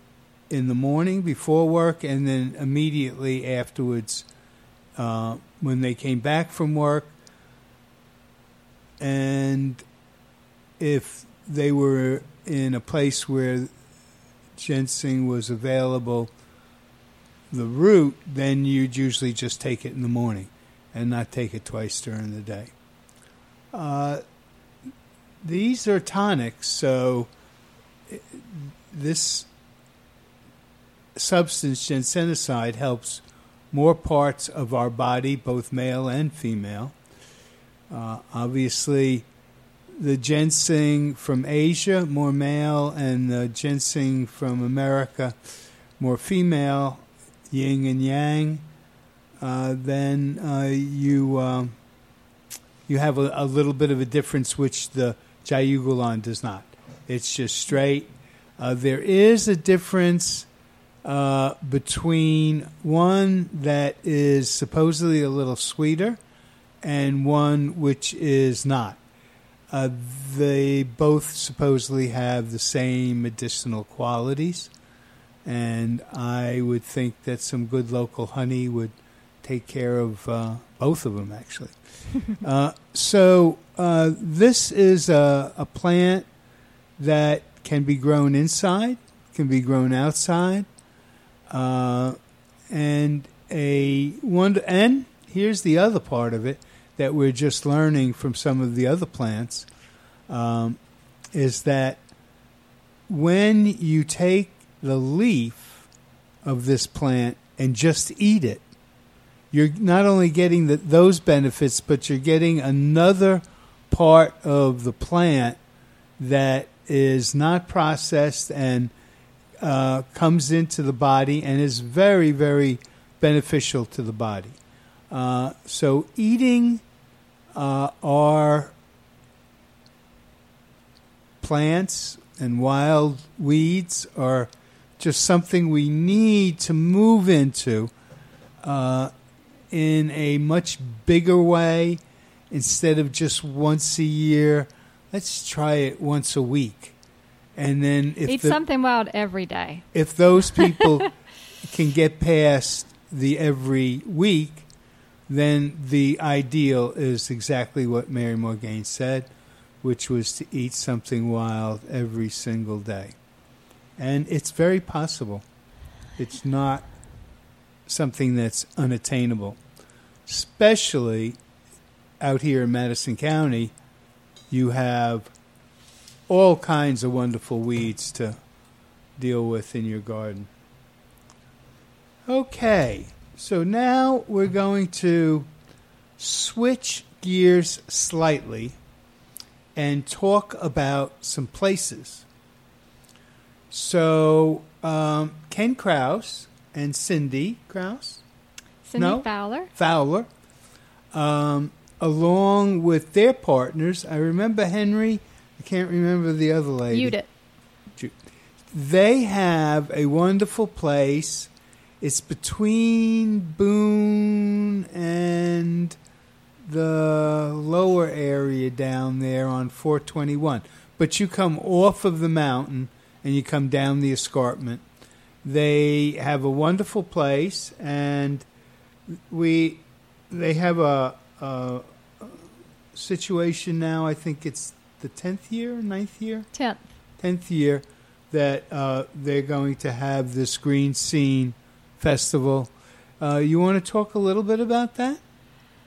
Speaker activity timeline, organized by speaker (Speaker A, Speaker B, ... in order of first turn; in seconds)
Speaker A: 0.5-4.2, 5.0-7.1, 9.0-9.8, 10.8-13.7, 14.6-16.3, 17.5-22.7, 23.7-24.2, 25.4-27.3, 28.1-29.5, 31.1-36.9, 37.9-39.3, 40.0-45.4, 46.0-48.6, 49.4-51.7, 52.9-60.5, 61.0-66.2, 66.8-69.0, 69.7-74.7, 75.4-81.8, 82.3-86.2, 87.0-90.7, 91.5-92.2, 92.7-99.7, 100.3-100.8, 101.3-102.0, 103.1-105.9, 106.4-108.6, 109.5-115.6, 116.2-118.9, 119.6-124.6, 125.1-126.8, 127.5-128.7, 131.4-137.9, 138.6-139.1, 139.7-146.9, 147.5-148.6, 149.9-151.1, 151.6-154.7, 155.3-159.3, 159.8-163.2, 164.0-165.4, 166.2-166.9, 167.9-169.6, 170.2-171.4, 172.2-173.7, 174.5-175.3, 176.3-178.4, 179.2-180.5, 182.2-185.5, 186.2-188.8, 189.8-192.2, 193.7-198.2, 199.0-200.3, 201.1-207.2, 208.7-216.0, 216.6-224.8, 225.4-228.4, 229.1-232.4, 232.9-236.5, 237.2-245.2
Speaker B: 148.3-149.8, 150.5-150.9, 198.8-199.7, 206.9-207.3, 236.5-236.8